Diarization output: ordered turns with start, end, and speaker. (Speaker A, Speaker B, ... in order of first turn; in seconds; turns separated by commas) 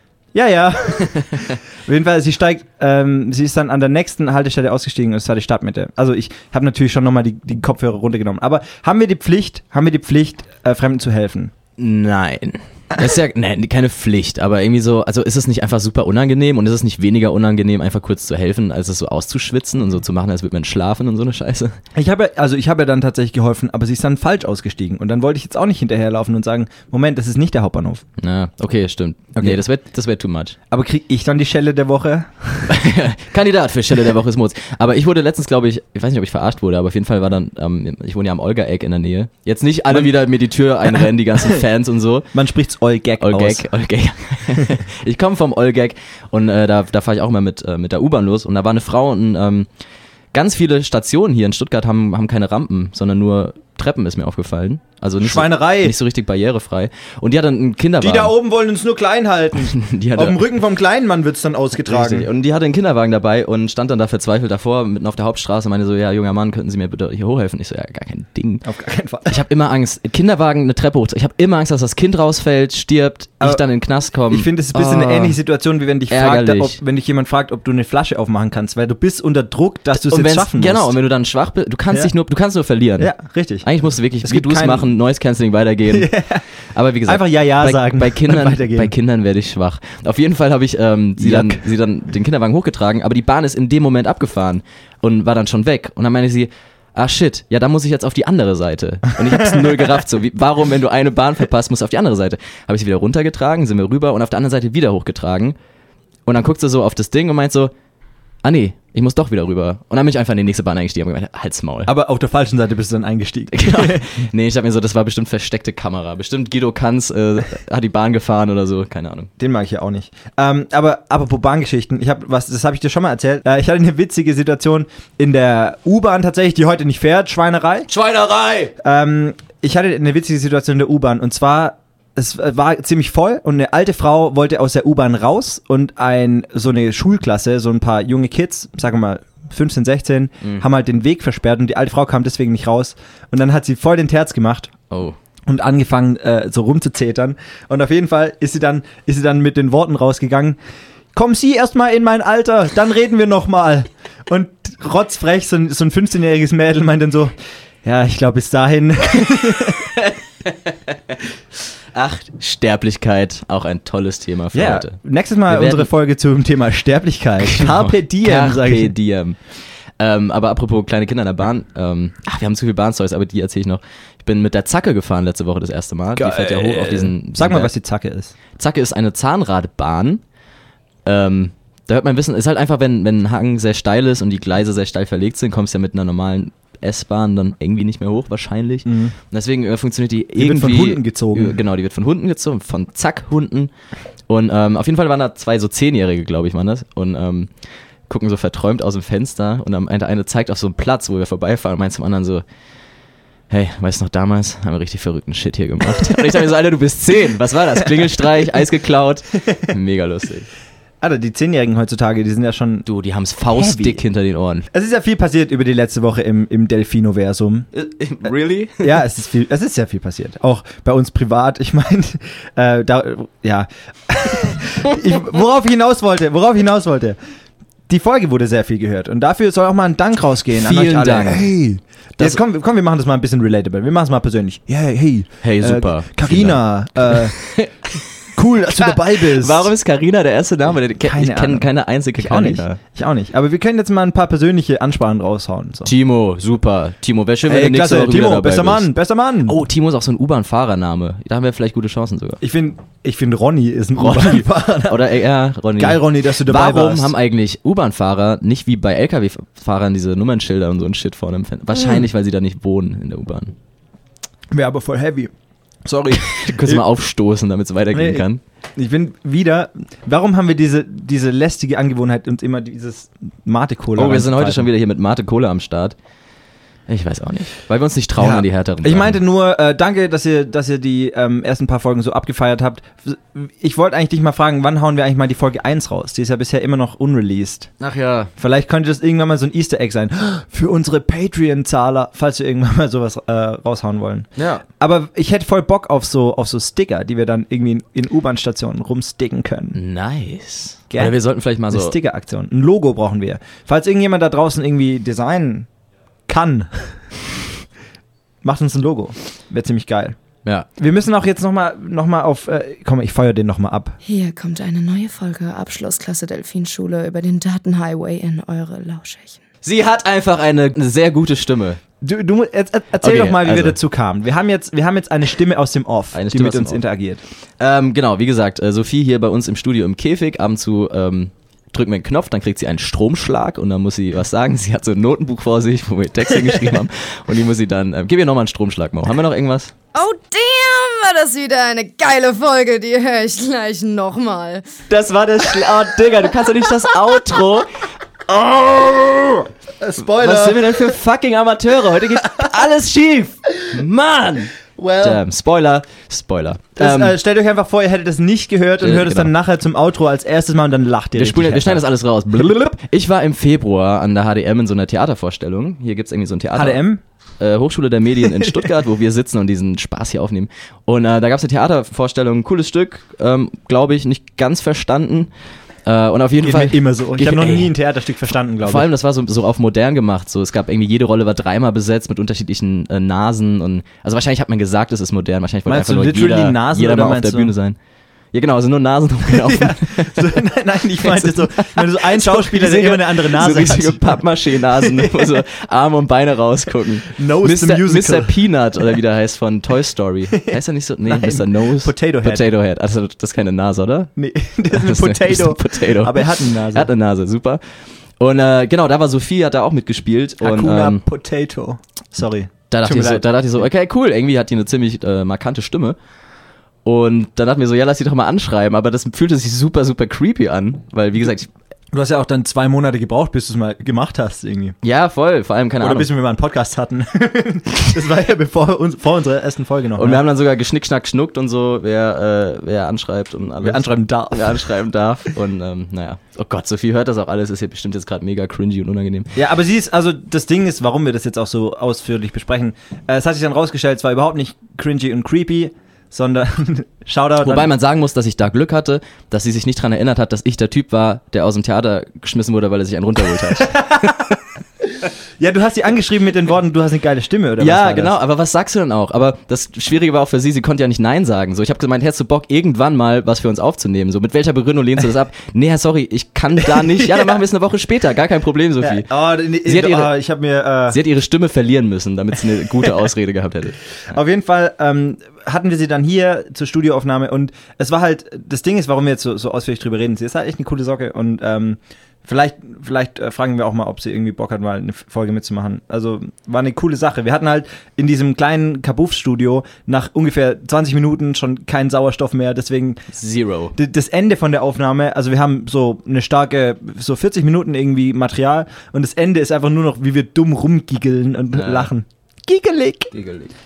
Speaker A: 0.3-11.5, Speaker B: 11.8-21.8, Speaker A: 21.9-28.1, Speaker B: 28.2-30.6, Speaker A: 30.7-32.7, Speaker B: 32.7-42.3, Speaker A: 42.3-43.7, Speaker B: 43.2-49.7, Speaker B: 50.3-58.3, Speaker A: 55.2-56.0, Speaker A: 58.0-62.3, Speaker B: 59.6-60.4, Speaker B: 61.9-68.7, Speaker A: 68.6-69.4, Speaker B: 69.3-75.4, Speaker A: 74.3-81.0, Speaker B: 76.1-76.8, Speaker B: 79.9-83.1, Speaker A: 83.0-83.7, Speaker B: 83.6-86.1, Speaker A: 84.2-84.9, Speaker A: 85.9-86.4, Speaker B: 86.7-105.6, Speaker A: 87.1-88.9, Speaker A: 91.2-91.7, Speaker B: 106.3-107.7, Speaker B: 108.4-111.9, Speaker A: 111.9-114.0, Speaker B: 113.5-119.3, Speaker A: 119.4-127.9, Speaker B: 127.9-128.7, Speaker A: 128.8-144.7, Speaker B: 144.9-145.2, Speaker A: 145.5-150.6, Speaker A: 151.1-159.9, Speaker B: 160.0-161.2, Speaker B: 161.9-165.0, Speaker A: 164.5-168.9, Speaker B: 165.5-165.9, Speaker B: 167.4-169.4, Speaker B: 170.0-177.7, Speaker A: 176.2-178.3, Speaker B: 178.6-180.2, Speaker B: 181.1-193.7, Speaker A: 188.9-189.1, Speaker A: 190.4-191.6, Speaker B: 194.3-197.5, Speaker B: 198.1-202.4, Speaker B: 203.5-210.5, Speaker A: 211.0-212.8, Speaker B: 212.8-214.7, Speaker A: 213.5-214.0, Speaker A: 214.7-217.7, Speaker B: 217.7-218.9, Speaker A: 218.8-227.2, Speaker A: 227.9-237.4, Speaker B: 230.6-231.5, Speaker B: 235.4-238.0, Speaker A: 238.4-239.7, Speaker B: 238.8-242.8, Speaker A: 241.0-245.9, Speaker B: 245.9-248.9, Speaker A: 247.5-249.6, Speaker B: 249.5-252.4, Speaker A: 252.4-255.0, Speaker B: 254.0-263.6, Speaker A: 255.8-257.1, Speaker A: 264.5-265.3, Speaker A: 265.9-266.8, Speaker B: 266.1-268.4, Speaker A: 267.9-274.7, Speaker B: 273.9-275.9, Speaker B: 276.9-279.2, Speaker A: 278.2-287.7, Speaker B: 287.8-288.3, Speaker A: 288.4-299.8, Speaker B: 294.4-294.6, Speaker B: 299.8-302.0, Speaker A: 300.9-301.2, Speaker A: 301.7-305.7, Speaker A: 306.3-306.9, Speaker A: 308.4-310.2, Speaker A: 310.8-314.0, Speaker C: 314.1-319.4, Speaker B: 319.6-321.8, Speaker A: 322.0-327.2, Speaker B: 323.0-323.8, Speaker B: 326.1-326.8, Speaker B: 327.6-339.7, Speaker C: 339.9-344.8, Speaker B: 344.9-347.7, Speaker B: 348.3-349.5, Speaker A: 349.8-350.7, Speaker B: 350.1-357.2, Speaker A: 354.8-355.2, Speaker A: 356.8-361.8, Speaker B: 358.8-359.3, Speaker B: 361.2-366.8, Speaker A: 366.5-367.0, Speaker B: 367.4-375.3, Speaker B: 375.9-377.7, Speaker A: 376.4-378.9, Speaker B: 378.6-387.8, Speaker A: 385.7-387.5, Speaker B: 388.3-390.5, Speaker A: 389.3-394.2, Speaker B: 391.0-404.1, Speaker A: 394.7-395.4, Speaker A: 397.1-398.4, Speaker A: 400.5-402.5, Speaker A: 404.2-406.9, Speaker B: 404.7-407.6, Speaker B: 408.2-411.0, Speaker A: 410.4-413.2, Speaker B: 412.7-416.0, Speaker B: 416.9-421.5, Speaker A: 421.9-424.8, Speaker B: 424.8-426.1, Speaker A: 425.8-430.2, Speaker B: 430.0-439.3, Speaker A: 433.6-434.7, Speaker A: 439.4-447.7, Speaker B: 447.4-454.4, Speaker A: 453.6-454.3, Speaker A: 454.9-458.2, Speaker B: 457.6-469.1, Speaker A: 466.7-467.4, Speaker A: 468.8-471.0, Speaker B: 469.6-470.1, Speaker B: 470.9-473.8, Speaker A: 474.1-493.0, Speaker B: 493.1-493.8, Speaker A: 493.8-503.1, Speaker B: 501.5-501.9, Speaker B: 503.1-503.5